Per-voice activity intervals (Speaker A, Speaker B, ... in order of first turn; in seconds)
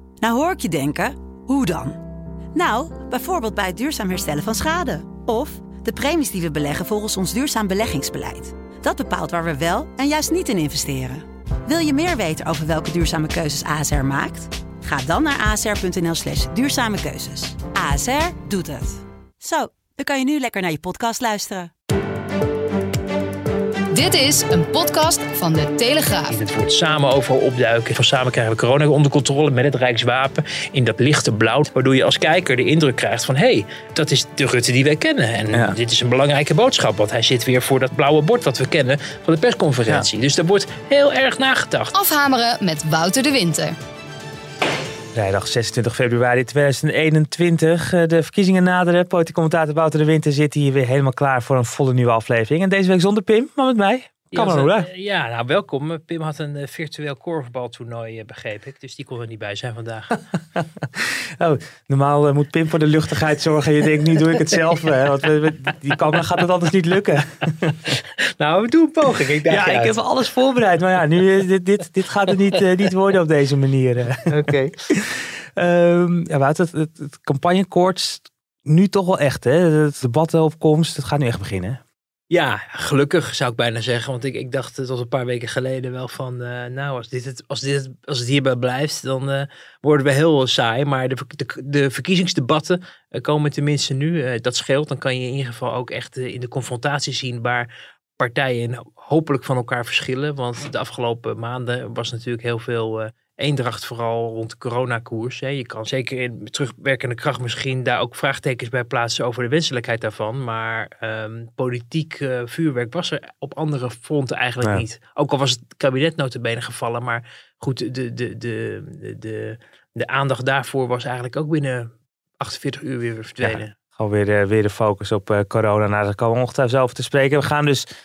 Speaker A: 0.2-2.0, 2.5-21.7
Speaker B: 23.9-26.3, 41.9-43.7
Speaker C: 26.3-41.9, 54.3-60.2, 67.7-69.9, 74.2-74.5, 82.3-123.7
Speaker D: 45.1-54.9, 60.5-67.5, 69.5-81.8, 123.4-127.8